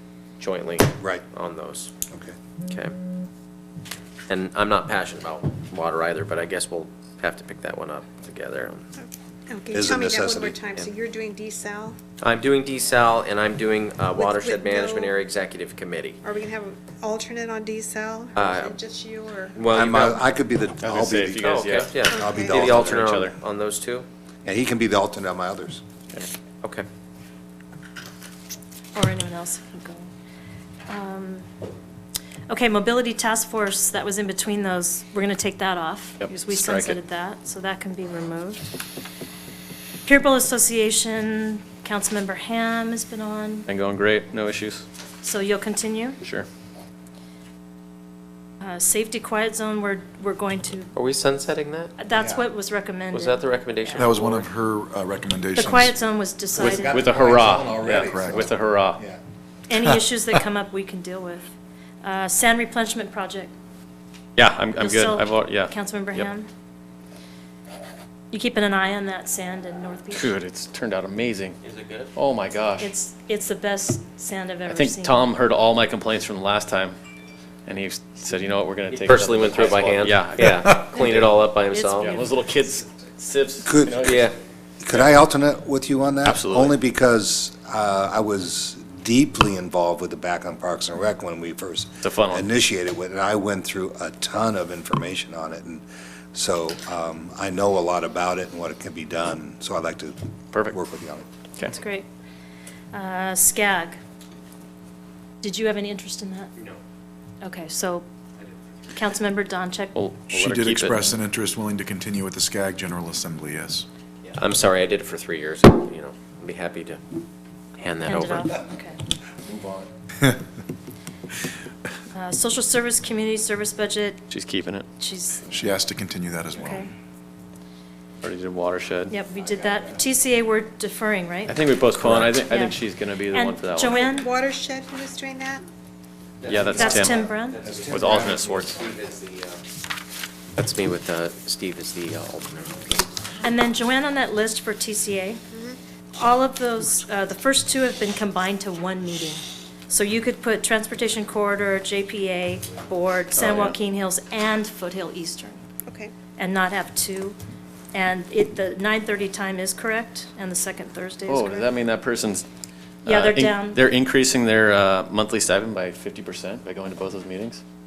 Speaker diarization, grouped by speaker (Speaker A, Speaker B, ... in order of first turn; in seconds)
Speaker A: 0.4-1.9, 2.7-2.9, 4.3-8.9, 12.2-16.2, 18.3-18.7, 19.5-20.2, 21.4-24.1, 50.9-51.9, 53.1-54.5, 71.6-72.1, 78.9-82.2, 84.0-84.3, 114.2-117.0, 117.8-118.5, 136.4-139.6, 140.6-143.0
Speaker B: 1.0-1.2, 2.1-2.3, 9.7-10.6, 19.7-21.4, 22.1-23.0, 24.4-25.8, 52.1-52.5, 56.5-59.2, 83.6-84.1, 84.8-101.2
Speaker C: 9.0-12.1, 14.1-15.2, 16.2-19.6, 22.1-22.6, 133.8-135.6, 155.9-156.1
Speaker D: 20.8-21.9, 22.5-23.4, 36.2-37.0, 43.7-44.8, 46.2-46.5, 56.7-59.0, 64.3-66.3, 70.1-71.6, 72.1-72.9, 74.7-77.0, 77.7-81.3, 82.0-84.3, 86.2-86.8, 92.0-92.5, 100.5-100.8, 109.9-111.1, 124.3-124.8, 128.2-129.1, 131.5-134.0, 136.4-137.3, 137.8-138.8, 153.3-153.7, 161.3-162.4, 163.0-167.6
Speaker E: 28.9-30.1, 30.9-31.5, 32.5-38.7, 40.0-43.7, 45.2-46.2, 48.6-50.9, 52.0-54.1, 55.5-57.0, 59.7-61.5, 62.0-63.5, 64.8-66.5, 68.3-70.3, 72.8-75.2, 81.7-82.3, 101.6-102.1, 102.9-104.0, 105.4-106.5, 107.4-108.0, 108.9-110.0, 118.0-119.0, 122.1-124.2, 125.0-125.5, 126.5-126.9, 129.1-131.6, 132.4-132.8, 133.3-134.3, 136.7-137.6, 143.4-145.4, 146.2-155.6, 156.4-157.4, 157.9-161.7, 163.1-163.8
Speaker F: 54.0-56.0, 57.9-58.4, 110.3-113.8, 125.5-126.9